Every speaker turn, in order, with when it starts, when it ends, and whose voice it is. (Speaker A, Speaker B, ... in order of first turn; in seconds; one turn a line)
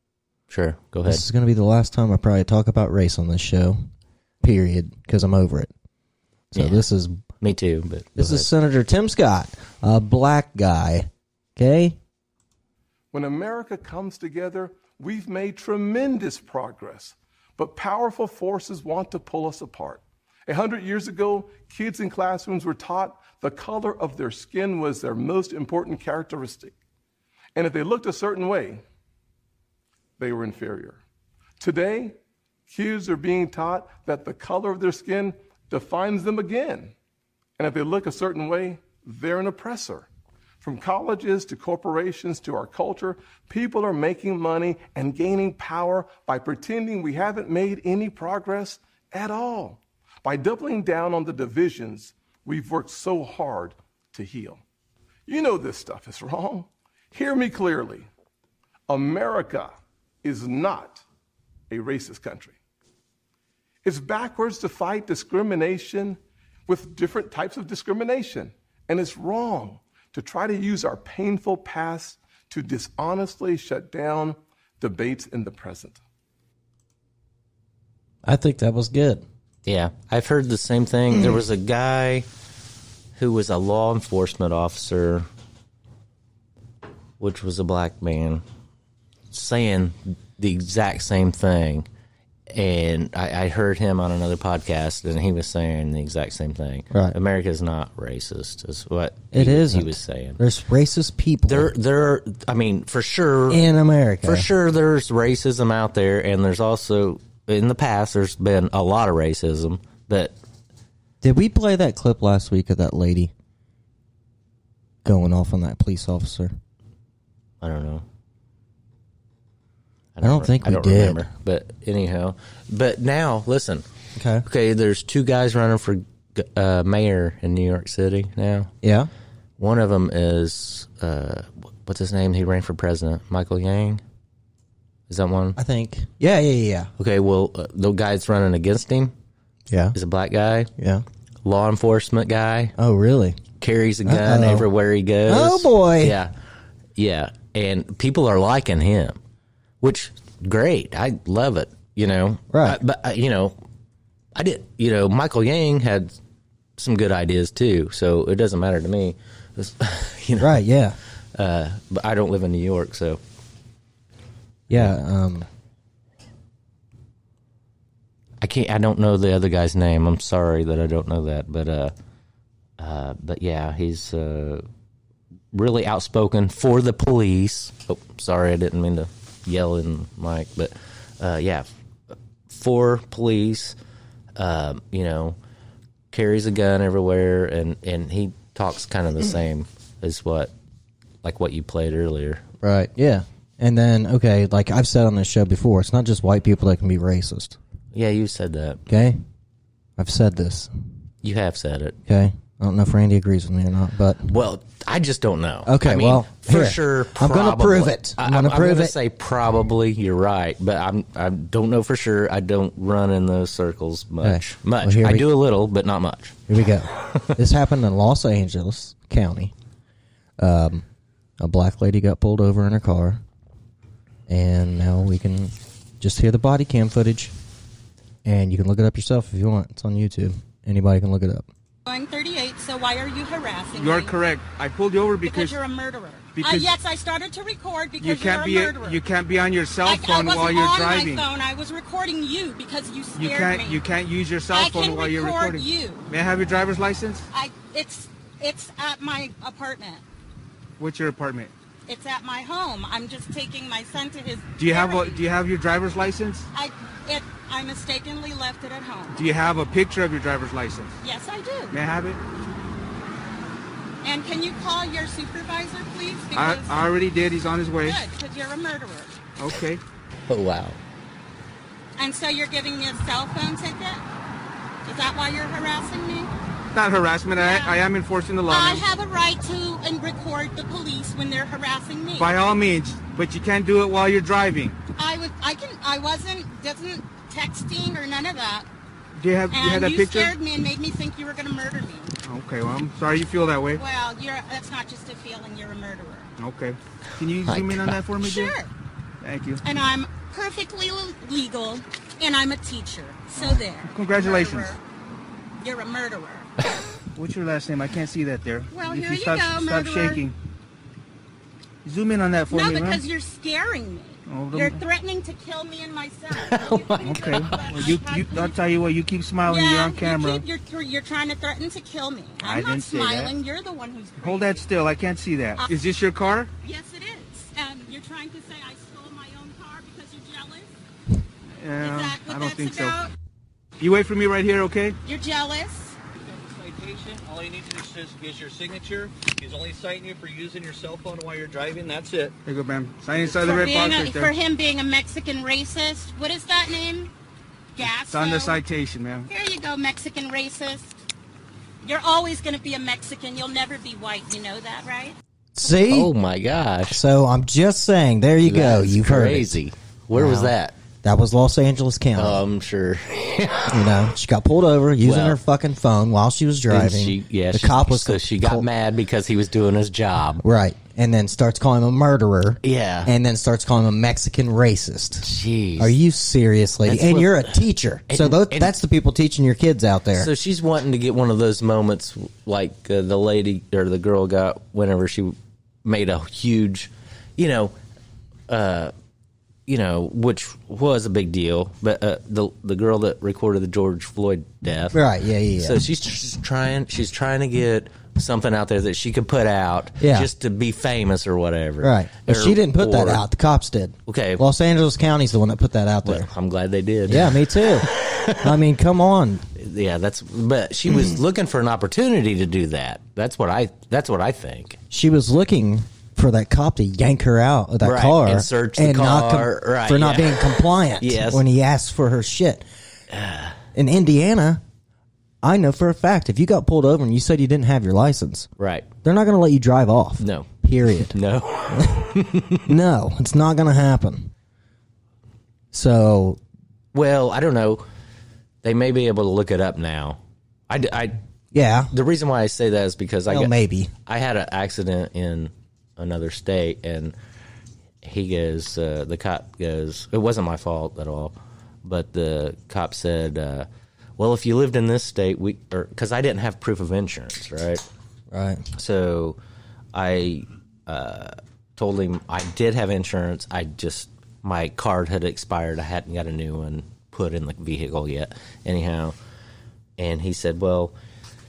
Speaker A: 0.5-1.2
Speaker B: 1.0-3.8
Speaker B: 4.4-5.7
Speaker B: 6.5-7.2
Speaker A: 6.5-6.8
Speaker A: 7.4-8.5
Speaker B: 8.2-12.0
Speaker C: 13.1-26.7
Speaker C: 27.5-28.8
Speaker C: 30.2-31.0
Speaker C: 31.6-32.1
Speaker C: 32.7-36.9
Speaker C: 37.6-40.1
Speaker C: 40.6-54.6
Speaker C: 55.3-58.1
Speaker C: 58.9-59.7
Speaker C: 60.2-61.0
Speaker C: 61.7-62.5
Speaker C: 63.8-76.0
Speaker B: 78.2-79.2
Speaker A: 79.6-82.3
Speaker A: 83.2-85.3
Speaker A: 87.2-88.4
Speaker A: 89.3-91.9
Speaker A: 92.5-100.4
Speaker B: 96.9-97.2
Speaker B: 99.3-101.7
Speaker A: 101.5-103.7
Speaker B: 103.5-104.5
Speaker A: 104.2-110.3
Speaker B: 111.2-113.3
Speaker B: 115.0-116.5
Speaker A: 117.6-118.0
Speaker A: 120.1-123.8
Speaker B: 120.2-121.2
Speaker B: 124.2-124.5
Speaker A: 124.5-128.7
Speaker B: 128.8-129.1
Speaker A: 129.6-134.0
Speaker A: 135.1-135.6
Speaker B: 135.6-136.9
Speaker A: 137.0-139.1
Speaker B: 139.7-139.9
Speaker A: 139.9-140.7
Speaker B: 140.8-141.0
Speaker A: 141.4-142.7
Speaker B: 142.8-143.4
Speaker A: 143.6-146.3
Speaker B: 144.0-144.7
Speaker B: 145.2-146.2
Speaker A: 146.9-149.2
Speaker A: 149.8-153.5
Speaker B: 152.5-152.8
Speaker A: 154.3-156.2
Speaker A: 156.8-160.6
Speaker B: 160.4-161.0
Speaker A: 161.3-163.2
Speaker B: 164.7-165.5
Speaker A: 168.4-171.9
Speaker A: 172.8-174.6
Speaker A: 175.5-181.7
Speaker A: 182.5-183.8
Speaker A: 184.4-185.4
Speaker A: 186.1-190.5
Speaker A: 191.2-192.4
Speaker B: 192.6-197.6
Speaker A: 197.9-198.8
Speaker B: 198.9-199.2
Speaker B: 200.0-200.7
Speaker A: 201.2-202.0
Speaker B: 202.1-204.3
Speaker A: 204.3-216.4
Speaker B: 205.6-209.0
Speaker B: 214.2-215.3
Speaker B: 216.5-219.5
Speaker B: 220.4-220.8
Speaker B: 221.4-223.2
Speaker B: 224.3-227.3
Speaker B: 228.2-231.5
Speaker D: 231.9-234.1
Speaker E: 233.7-235.6
Speaker D: 235.2-239.0
Speaker E: 236.3-236.7
Speaker E: 238.0-241.2
Speaker D: 239.8-243.8
Speaker E: 243.1-247.2
Speaker D: 244.5-246.1
Speaker D: 247.3-250.0
Speaker E: 250.8-251.5
Speaker D: 251.9-255.2
Speaker E: 254.6-256.5
Speaker D: 256.5-259.2
Speaker E: 259.1-260.9
Speaker D: 261.0-261.8
Speaker E: 261.7-262.2
Speaker D: 264.0-266.9
Speaker E: 266.3-268.0
Speaker D: 267.8-269.2
Speaker E: 269.4-269.8
Speaker A: 270.3-270.8
Speaker D: 272.0-274.0
Speaker D: 274.8-276.3
Speaker E: 276.7-278.8
Speaker D: 277.3-277.8
Speaker D: 278.4-282.5
Speaker E: 282.2-284.8
Speaker D: 284.9-288.7
Speaker E: 289.2-290.3
Speaker D: 289.5-292.1
Speaker E: 292.2-293.8
Speaker D: 293.7-296.3
Speaker E: 296.4-298.5
Speaker A: 297.4-298.0
Speaker D: 298.2-298.7
Speaker E: 299.2-299.6
Speaker D: 299.6-304.8
Speaker E: 303.3-304.7
Speaker D: 305.6-306.5
Speaker E: 307.1-310.4
Speaker D: 308.7-310.2
Speaker E: 311.8-313.0
Speaker D: 312.5-318.6
Speaker E: 314.3-314.8
Speaker A: 316.3-317.9
Speaker E: 317.0-320.4
Speaker D: 319.4-324.7
Speaker E: 322.4-323.3
Speaker E: 324.2-326.5
Speaker D: 326.6-330.7
Speaker E: 331.6-333.0
Speaker D: 331.8-333.1
Speaker E: 333.8-335.0
Speaker D: 335.0-336.0
Speaker F: 336.2-342.3
Speaker E: 342.4-344.3
Speaker F: 343.2-343.6
Speaker D: 343.3-347.1
Speaker D: 347.8-348.6
Speaker E: 348.0-349.3
Speaker D: 349.3-350.9
Speaker D: 351.8-355.1
Speaker B: 355.5-356.1
Speaker A: 355.7-357.0
Speaker B: 356.9-359.6
Speaker A: 358.4-360.7
Speaker B: 360.1-362.4
Speaker A: 362.1-363.9
Speaker B: 363.7-368.7
Speaker A: 365.0-365.4
Speaker A: 366.7-370.4
Speaker B: 370.4-380.3
Speaker A: 372.6-373.1
Speaker A: 375.2-375.9
Speaker A: 376.8-378.7
Speaker A: 380.1-387.7
Speaker A: 388.5-388.9
Speaker A: 389.7-395.0
Speaker B: 394.9-395.8
Speaker A: 395.6-403.2
Speaker B: 400.0-400.3
Speaker B: 401.8-406.3
Speaker A: 404.1-404.4
Speaker A: 406.0-408.6
Speaker B: 407.1-407.9
Speaker B: 408.4-409.4
Speaker A: 409.5-414.8
Speaker B: 414.9-422.6
Speaker A: 417.8-421.4
Speaker A: 423.1-423.6
Speaker B: 423.7-424.6
Speaker B: 425.4-428.5
Speaker A: 428.6-428.9
Speaker B: 429.0-431.1
Speaker A: 430.2-430.5
Speaker A: 431.0-432.6
Speaker B: 431.7-432.1
Speaker B: 432.6-434.3
Speaker B: 435.7-436.4
Speaker A: 436.9-437.8
Speaker A: 438.6-440.2
Speaker A: 440.7-441.2
Speaker B: 441.5-441.9
Speaker A: 441.9-443.5
Speaker B: 443.3-443.9
Speaker A: 444.1-447.1
Speaker A: 448.0-457.8
Speaker B: 458.3-458.7
Speaker A: 458.7-459.4
Speaker A: 459.9-469.1
Speaker A: 470.0-470.9